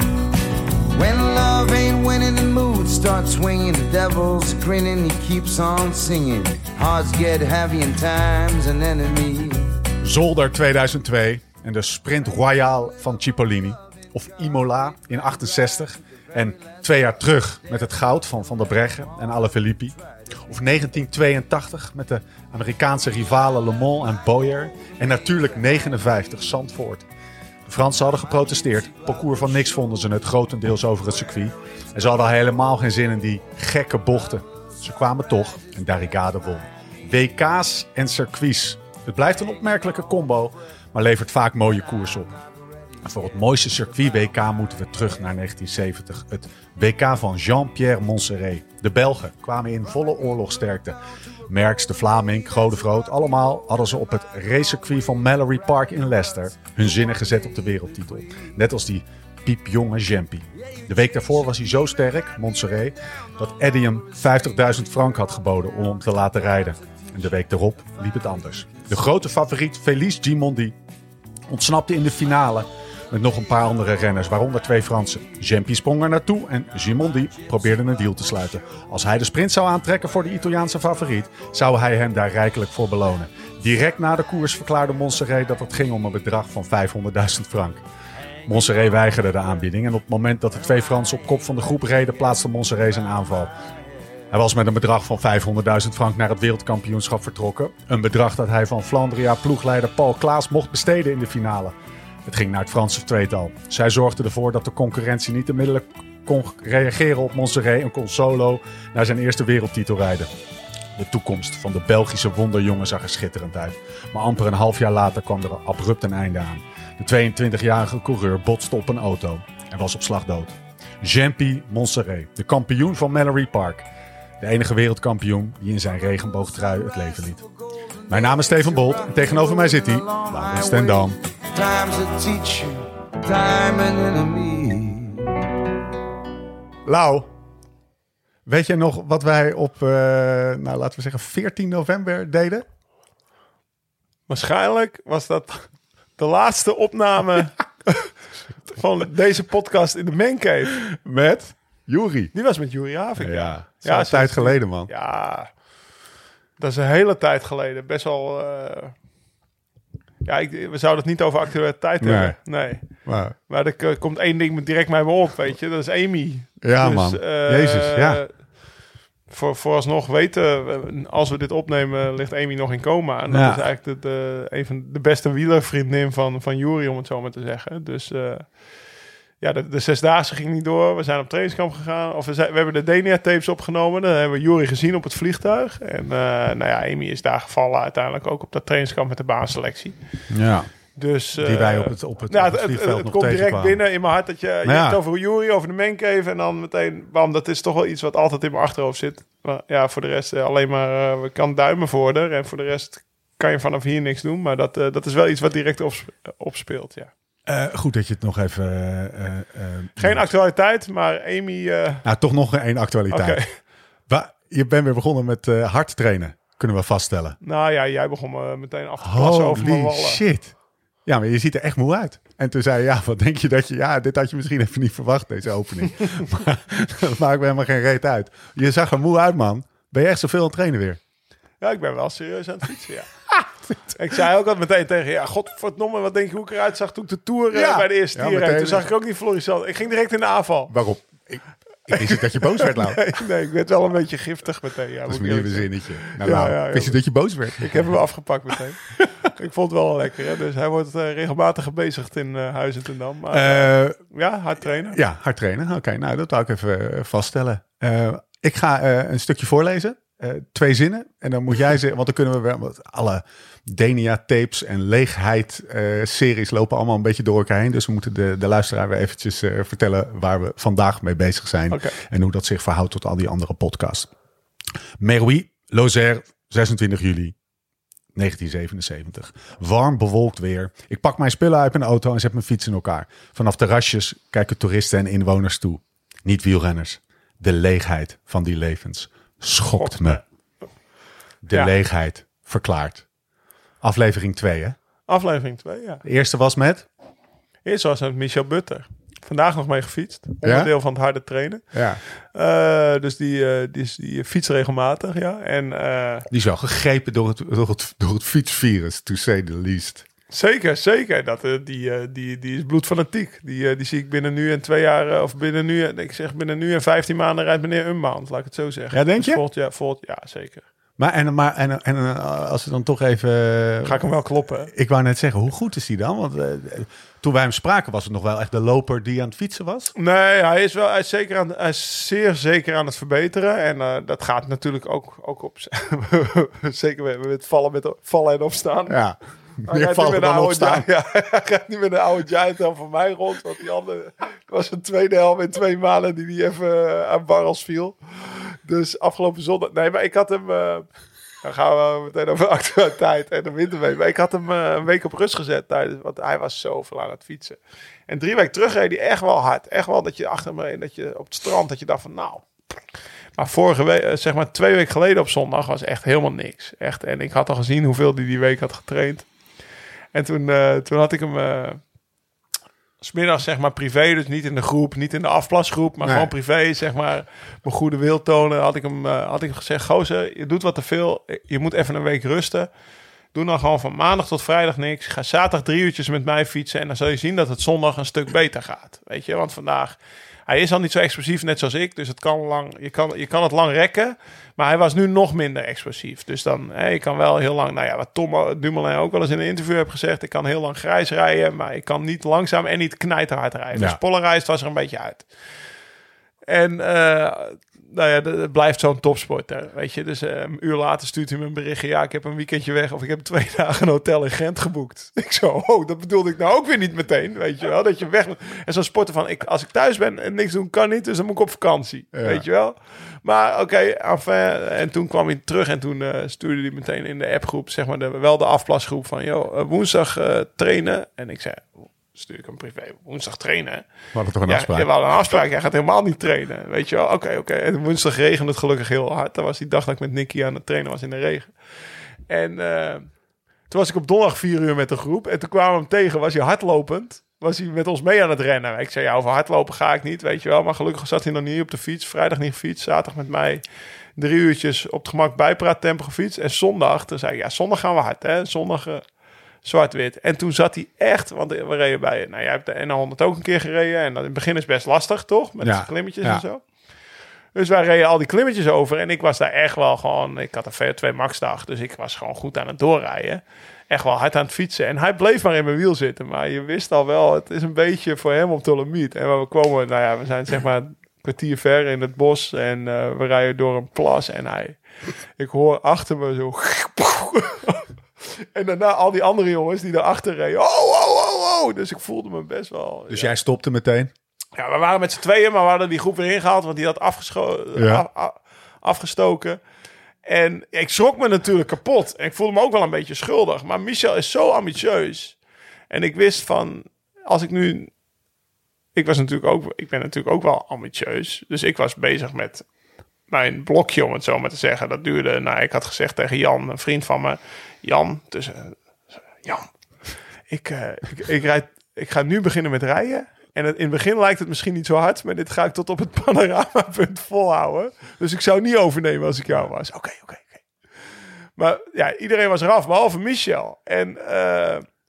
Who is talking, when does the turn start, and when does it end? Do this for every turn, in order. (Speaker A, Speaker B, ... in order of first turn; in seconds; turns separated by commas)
Speaker A: 0.9-9.9, Speaker B: 10.0-27.0, Speaker B: 27.6-42.4, Speaker B: 43.0-70.8, Speaker B: 71.5-87.8, Speaker B: 88.5-93.5, Speaker B: 94.3-101.7, Speaker B: 102.2-110.3, Speaker B: 110.9-123.8, Speaker B: 124.4-127.4, Speaker B: 128.1-131.2, Speaker A: 128.1-135.4, Speaker B: 136.8-137.3, Speaker B: 138.4-142.6, Speaker C: 144.3-148.0, Speaker C: 148.6-150.8, Speaker B: 150.9-152.3, Speaker C: 152.3-155.5, Speaker B: 153.2-154.9, Speaker C: 156.6-158.9, Speaker C: 160.2-168.7, Speaker B: 162.0-162.4, Speaker B: 163.0-163.3, Speaker B: 166.6-168.2, Speaker C: 169.3-190.2, Speaker B: 173.3-173.6, Speaker B: 190.3-190.7, Speaker C: 190.9-207.1, Speaker B: 191.3-193.8, Speaker B: 194.6-195.0, Speaker B: 207.5-210.3, Speaker C: 210.0-212.1, Speaker B: 212.0-213.4, Speaker C: 213.1-213.5, Speaker B: 214.1-217.4, Speaker C: 217.4-220.2, Speaker B: 219.0-231.0, Speaker C: 231.6-233.1, Speaker C: 233.9-240.7, Speaker B: 237.5-238.8, Speaker B: 240.7-243.0, Speaker C: 241.9-247.0, Speaker B: 245.1-247.8, Speaker C: 247.6-255.0, Speaker B: 253.3-254.0, Speaker B: 254.9-274.1, Speaker B: 275.0-277.3, Speaker B: 278.1-290.2, Speaker C: 289.7-290.2, Speaker B: 291.4-293.1, Speaker B: 293.8-294.8, Speaker C: 295.1-296.0, Speaker B: 296.0-296.9, Speaker C: 297.6-306.3, Speaker B: 300.4-300.7, Speaker B: 301.7-302.0, Speaker B: 306.3-310.0, Speaker C: 310.3-320.6, Speaker B: 318.9-319.4, Speaker B: 321.0-324.0, Speaker C: 323.8-324.7, Speaker B: 324.7-329.9, Speaker C: 329.9-339.0, Speaker B: 338.9-340.9, Speaker C: 339.7-350.9, Speaker C: 351.4-362.5, Speaker C: 363.4-369.3, Speaker C: 370.1-371.8, Speaker C: 373.0-382.7, Speaker B: 376.0-376.3, Speaker C: 383.3-405.3, Speaker B: 403.7-404.0, Speaker C: 406.5-433.9, Speaker B: 422.1-422.4, Speaker B: 434.1-434.9, Speaker C: 434.4-441.5, Speaker C: 442.3-443.1, Speaker C: 443.7-453.6, Speaker C: 454.2-459.1, Speaker C: 459.6-466.6, Speaker B: 465.6-466.4, Speaker C: 467.5-484.8, Speaker C: 485.4-493.3, Speaker B: 493.1-494.1, Speaker C: 494.6-499.6, Speaker B: 497.8-498.0, Speaker C: 500.2-505.4, Speaker C: 505.9-507.9, Speaker C: 508.9-512.7, Speaker C: 513.3-518.8, Speaker C: 519.3-519.7, Speaker C: 520.5-530.6, Speaker C: 531.6-534.9